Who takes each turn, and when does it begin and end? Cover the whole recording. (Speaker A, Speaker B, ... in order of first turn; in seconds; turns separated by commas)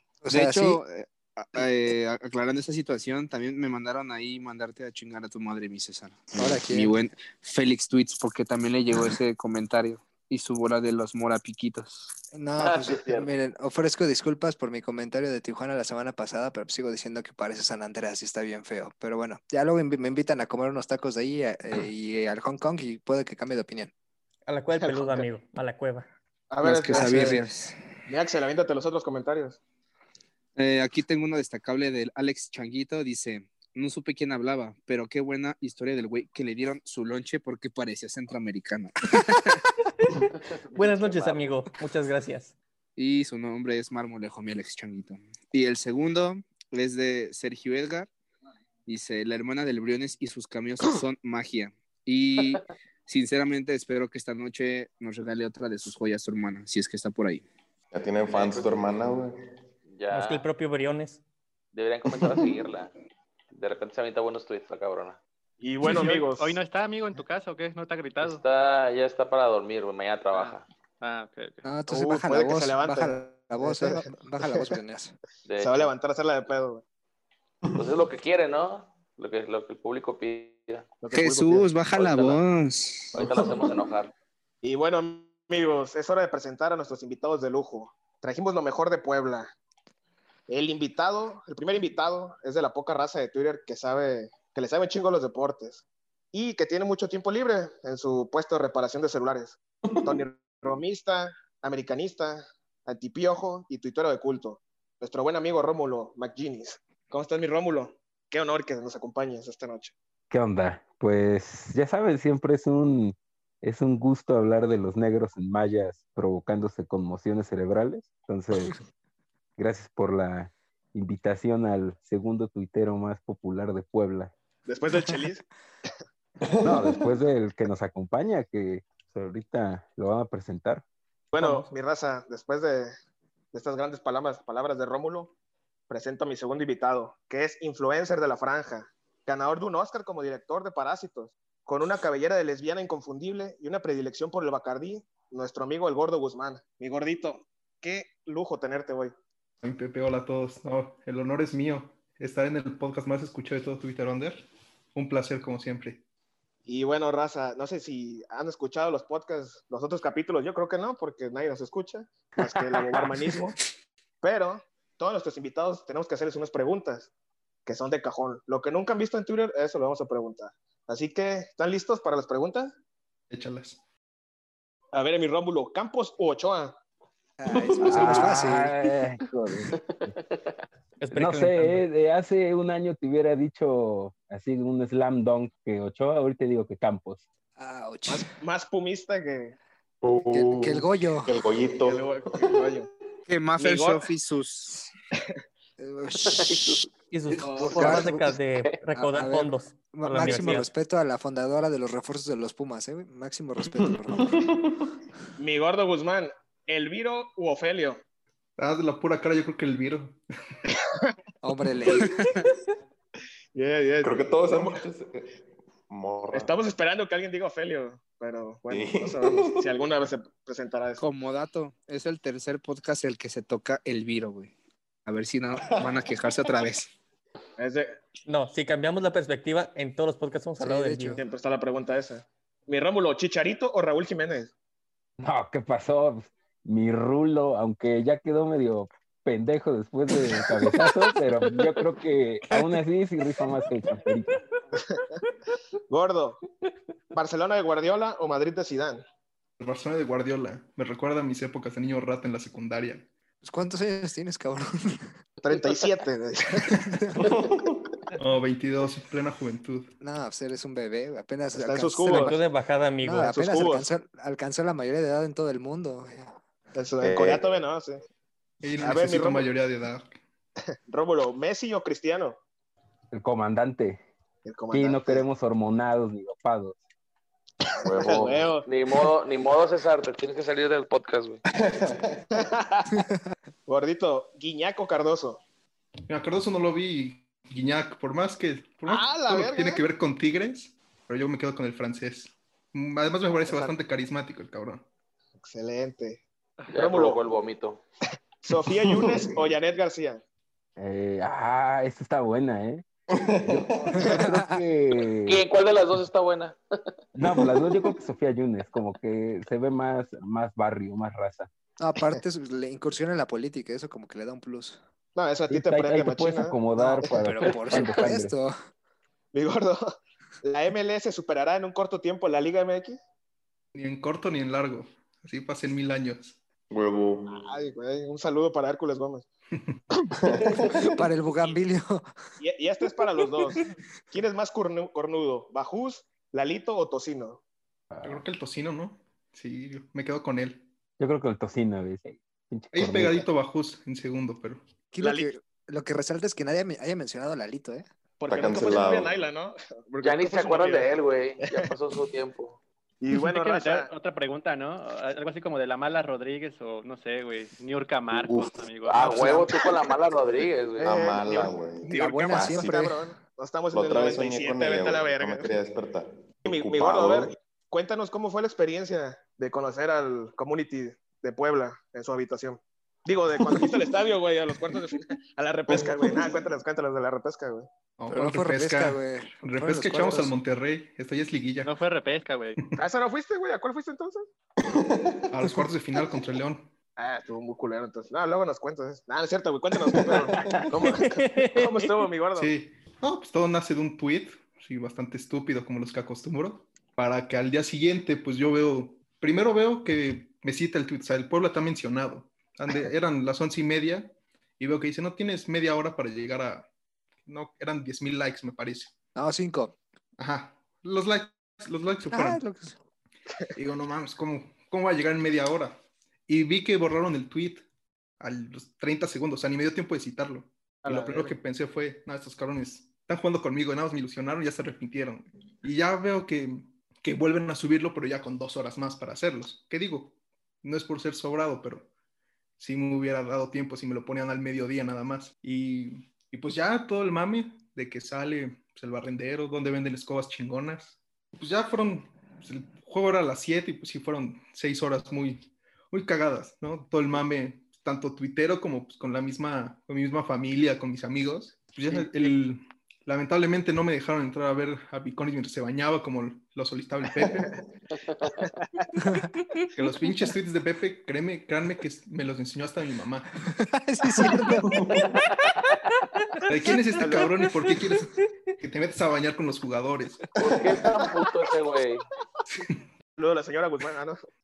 Speaker A: 0.2-0.8, Speaker B: 0.3-12.1, Speaker A: 6.4-6.9, Speaker A: 12.3-23.9, Speaker C: 12.6-13.3, Speaker D: 24.5-26.1, Speaker E: 24.8-25.3, Speaker E: 26.5-27.4, Speaker B: 26.6-27.8, Speaker A: 26.9-27.4, Speaker E: 28.1-29.6, Speaker B: 30.6-39.6, Speaker D: 39.9-42.5, Speaker C: 40.8-41.5, Speaker B: 43.0-48.1, Speaker B: 48.9-57.5, Speaker F: 57.9-59.4, Speaker C: 58.3-58.7, Speaker C: 59.9-60.4, Speaker D: 60.1-61.2, Speaker C: 61.7-62.9, Speaker C: 63.5-65.2, Speaker E: 65.6-66.6, Speaker G: 65.8-68.4, Speaker C: 68.2-70.7, Speaker G: 70.3-71.6, Speaker A: 71.7-75.2, Speaker E: 71.9-74.6, Speaker C: 75.5-75.9, Speaker E: 75.6-76.8, Speaker F: 77.7-77.9, Speaker C: 77.8-80.9, Speaker E: 81.0-81.7, Speaker B: 81.1-83.2, Speaker C: 82.0-82.4, Speaker C: 83.2-84.1, Speaker F: 83.2-83.8, Speaker E: 84.6-89.5, Speaker E: 90.5-109.9, Speaker H: 110.3-118.8, Speaker H: 119.6-124.3, Speaker E: 124.7-125.4, Speaker F: 126.4-127.1, Speaker H: 126.6-130.8, Speaker E: 131.3-132.9, Speaker I: 131.4-131.7, Speaker E: 133.5-135.3, Speaker E: 135.9-149.1, Speaker I: 149.6-156.0, Speaker E: 156.7-163.6, Speaker E: 164.2-167.1, Speaker E: 167.7-172.7, Speaker I: 173.3-173.8, Speaker E: 174.9-176.8, Speaker A: 177.4-178.8, Speaker F: 177.5-178.1, Speaker H: 177.9-179.7, Speaker C: 179.9-180.5, Speaker D: 181.0-181.8, Speaker H: 181.1-187.2, Speaker A: 187.6-188.3, Speaker E: 188.1-189.6, Speaker F: 190.0-192.6, Speaker A: 190.3-191.3, Speaker E: 191.8-192.9, Speaker B: 193.3-194.9, Speaker E: 193.6-194.1, Speaker A: 195.8-196.8, Speaker C: 196.2-196.9, Speaker D: 197.1-200.7, Speaker E: 197.4-198.1, Speaker A: 197.6-198.3, Speaker A: 199.0-204.4, Speaker F: 203.8-204.7, Speaker E: 205.4-208.0, Speaker I: 208.6-210.2, Speaker E: 210.7-211.1, Speaker A: 211.4-212.2, Speaker E: 213.6-214.2, Speaker F: 214.0-215.3, Speaker F: 215.9-216.5, Speaker E: 216.3-221.0, Speaker F: 218.7-219.7, Speaker B: 221.0-224.5, Speaker B: 225.1-226.9, Speaker E: 227.6-228.0, Speaker D: 228.3-231.2, Speaker A: 230.6-231.2, Speaker E: 231.2-234.5, Speaker H: 235.2-244.4, Speaker E: 244.7-245.2, Speaker E: 245.9-246.4, Speaker E: 247.2-249.0, Speaker I: 249.6-253.1, Speaker A: 253.4-255.2, Speaker E: 255.4-256.8, Speaker F: 257.2-257.8, Speaker I: 258.2-259.9, Speaker A: 260.0-262.3, Speaker E: 261.6-262.4, Speaker D: 262.1-263.3, Speaker A: 263.0-266.4, Speaker E: 263.2-263.9, Speaker E: 266.8-268.0, Speaker F: 267.0-267.6, Speaker I: 268.6-270.2, Speaker E: 268.8-269.5, Speaker E: 270.9-272.4, Speaker H: 273.1-274.0, Speaker E: 274.4-275.2, Speaker H: 274.7-276.8, Speaker F: 277.9-278.4, Speaker E: 277.9-279.1, Speaker C: 278.0-281.4, Speaker F: 281.5-282.2, Speaker E: 282.3-282.9, Speaker E: 283.7-285.4, Speaker I: 286.1-294.9, Speaker E: 288.9-289.8, Speaker E: 293.4-293.8, Speaker E: 295.4-296.2, Speaker C: 296.7-297.8, Speaker E: 296.8-297.2, Speaker E: 298.4-300.2, Speaker F: 298.7-299.3, Speaker H: 300.8-302.9, Speaker F: 303.1-303.9, Speaker H: 303.4-305.4, Speaker A: 304.0-304.6, Speaker C: 305.3-306.6, Speaker H: 307.1-311.5, Speaker A: 311.8-314.8, Speaker E: 315.2-316.6, Speaker H: 315.5-318.3, Speaker A: 316.8-318.5, Speaker C: 317.5-317.8, Speaker E: 319.3-319.8, Speaker E: 320.4-323.0, Speaker I: 323.8-326.4, Speaker F: 326.7-327.4, Speaker E: 327.3-329.3, Speaker F: 330.2-330.9, Speaker A: 330.7-332.1, Speaker E: 332.4-333.6, Speaker E: 334.1-337.4, Speaker I: 338.0-340.7, Speaker H: 341.0-343.3, Speaker I: 342.7-344.6, Speaker A: 344.9-347.9, Speaker E: 345.0-345.3, Speaker E: 348.2-350.9, Speaker F: 348.3-349.2, Speaker C: 350.0-352.6, Speaker E: 351.4-351.7, Speaker E: 353.0-353.9, Speaker G: 353.2-359.5, Speaker F: 358.1-359.2, Speaker C: 358.9-361.0, Speaker E: 359.0-359.8, Speaker E: 360.8-365.5, Speaker F: 360.8-362.8, Speaker A: 361.9-363.0, Speaker F: 363.7-367.4, Speaker E: 366.4-377.7, Speaker F: 375.7-376.4, Speaker I: 378.0-381.7, Speaker A: 378.1-380.3, Speaker G: 381.6-382.6, Speaker E: 382.8-384.2, Speaker F: 384.7-385.3, Speaker I: 385.3-386.7, Speaker E: 387.0-392.5, Speaker F: 389.9-390.7, Speaker D: 390.9-391.9, Speaker I: 392.4-406.7, Speaker I: 407.3-408.9, Speaker A: 409.2-409.8, Speaker I: 410.2-412.4, Speaker A: 412.1-412.8, Speaker I: 413.6-417.6, Speaker I: 418.2-431.9, Speaker E: 420.8-421.4, Speaker I: 432.6-457.5, Speaker C: 458.1-458.5, Speaker E: 458.5-458.8, Speaker A: 459.0-459.3, Speaker I: 459.8-463.4, Speaker A: 463.6-464.8, Speaker F: 464.6-465.1, Speaker I: 466.5-470.3, Speaker E: 467.0-467.3, Speaker C: 470.4-472.1, Speaker F: 470.4-471.0, Speaker E: 473.2-474.2